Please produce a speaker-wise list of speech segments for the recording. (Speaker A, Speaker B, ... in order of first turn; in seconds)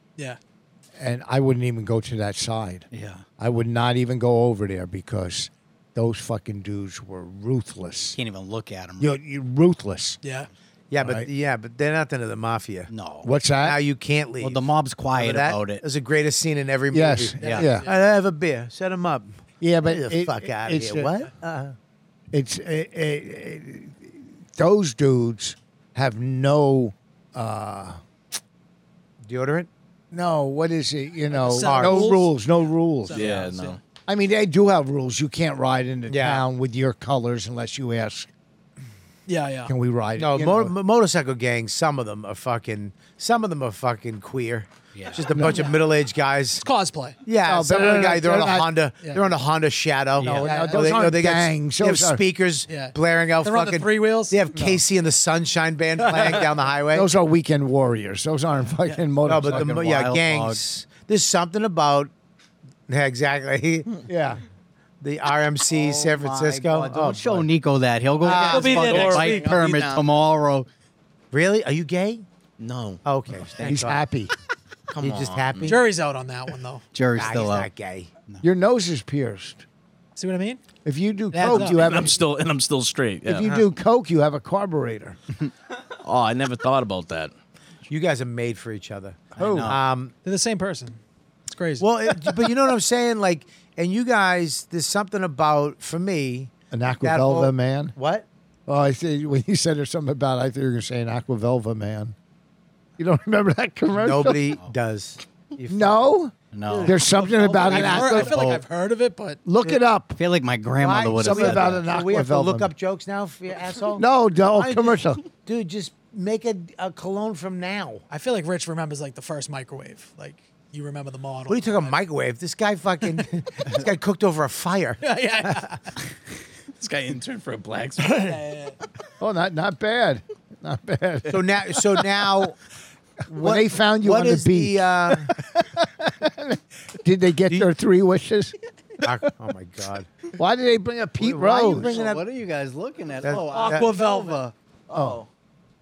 Speaker A: 1.0-2.9, 3.4-8.2, 9.0-10.2, 11.0-11.3, 13.2-13.8, 16.9-17.9, 19.6-21.1, 22.3-28.0, 30.1-33.5, 34.1-38.3, 39.7-40.7, 45.3-45.6, 47.4-48.8, 50.2-52.2, 54.5-54.8, 56.9-59.7, 64.1-64.4, 73.6-74.3, 78.4-79.6, 80.8-82.2, 83.2-85.2, 89.4-89.8, 96.7-97.9, 98.7-102.1, 103.0-104.5, 105.7-108.5, 109.4-110.2, 111.2-112.7, 113.9-115.2, 129.2-131.4, 133.4-139.0, 140.3-142.0, 144.9-145.2
Speaker B: 2.9-3.2, 8.1-9.2, 12.9-13.3, 14.4-15.8, 17.4-17.7, 44.9-45.3, 59.3-60.6, 65.7-70.7, 76.9-77.7, 89.3-89.8, 106.5-107.0, 107.6-108.6, 110.2-111.8, 141.8-144.5
Speaker C: 10.2-10.5, 17.5-18.0, 31.3-32.3, 33.0-33.8, 39.3-39.7, 45.4-45.8, 46.6-47.2, 50.4-51.0, 52.7-54.4, 68.5-69.6, 75.6-76.8, 80.2-80.6, 81.3-81.9, 90.2-91.0, 91.5-91.9, 107.1-109.4, 118.1-122.0, 125.0-125.9, 128.1-128.8, 143.5-144.5
Speaker D: 10.9-12.9, 13.6-14.6, 15.1-21.7, 29.2-29.7, 31.6-32.1, 36.1-36.5, 40.2-46.6, 47.2-57.1, 59.2-62.1, 62.9-64.0, 65.0-67.5, 68.2-69.0, 71.3-72.2, 73.0-74.0, 74.9-75.8, 77.2-78.1, 87.9-90.1, 91.8-98.3, 103.9-106.1, 106.7-107.2, 110.8-118.0, 121.5-125.6, 131.3-132.6, 133.3-135.3, 139.0-140.1, 141.2-142.2, 143.2-143.9
Speaker E: 33.1-33.8, 68.4-70.0, 72.6-73.0, 75.0-75.7, 81.5-83.5, 86.0-87.3, 126.8-128.4, 144.9-145.2